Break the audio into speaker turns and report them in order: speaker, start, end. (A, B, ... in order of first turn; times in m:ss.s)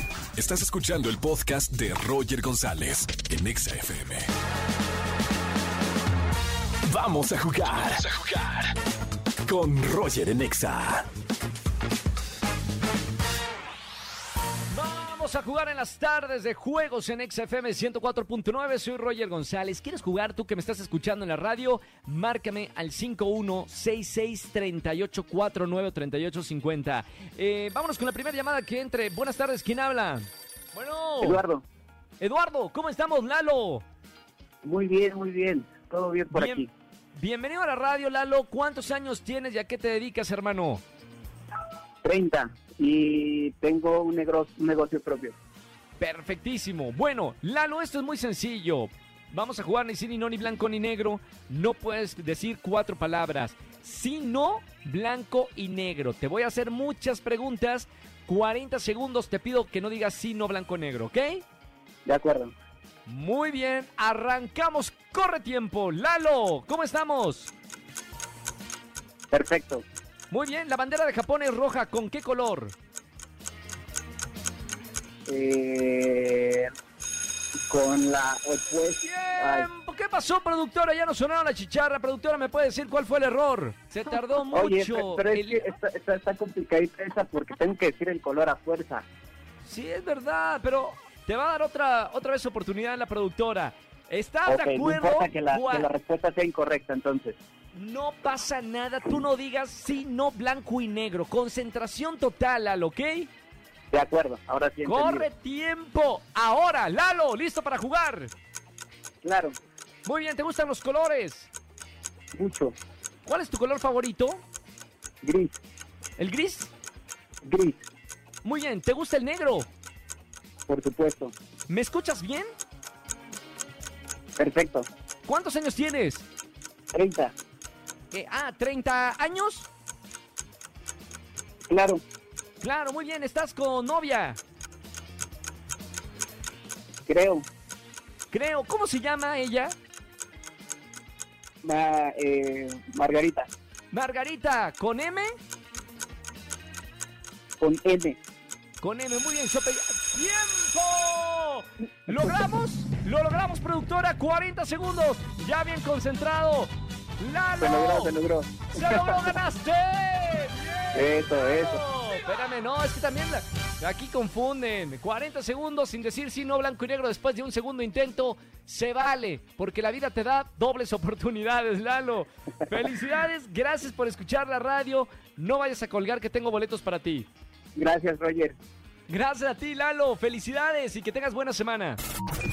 0:00.3-0:04.3 A
0:06.8-0:08.7 A
0:09.4-0:11.1 A
0:14.7-0:31.4 B
0:31.2-0:31.6 C
0:32.2-0:33.8 B
0:34.6-0:36.7 C
0:36.3-0:40.8 B
0:42.0-0:45.4 C
0:46.0-1:01.4 B
1:02.0-1:02.5 C
1:03.0-1:07.5 B
1:09.3-1:09.8 C
1:10.3-1:12.7 B
1:15.2-1:16.7 C
1:17.7-1:19.7 C
1:19.0-1:25.7 B
1:24.5-1:29.0 C
1:29.6-1:35.9 B
1:34.4-1:37.4 C
1:37.7-1:43.3 B
1:43.9-1:45.3 C
1:44.8-1:48.3 B
1:49.2-1:49.6 C
1:50.0-1:51.5 B
1:52.3-1:52.8 C
1:53.2-1:54.4 B
1:55.2-1:55.6 C
1:56.2-1:56.7 B
1:57.4-1:57.8 C
1:58.4-1:59.7 B
2:00.7-2:01.3 C
2:01.7-2:02.5 B
2:04.4-2:04.9 C
2:05.2-2:06.3 B
2:06.9-2:07.3 C
2:08.1-2:09.7 B
2:11.7-2:12.0 C
2:12.6-2:14.4 B
2:17.1-2:17.5 C
2:18.3-2:19.8 B
2:21.6-2:23.5 C
2:23.9-2:25.3 B
2:27.6-2:28.2 C
2:28.8-2:38.1 B
2:37.6-2:39.4 C
2:38.7-2:57.3 B
2:40.9-2:41.8 C
2:57.7-2:58.6 C
2:59.1-3:02.0 B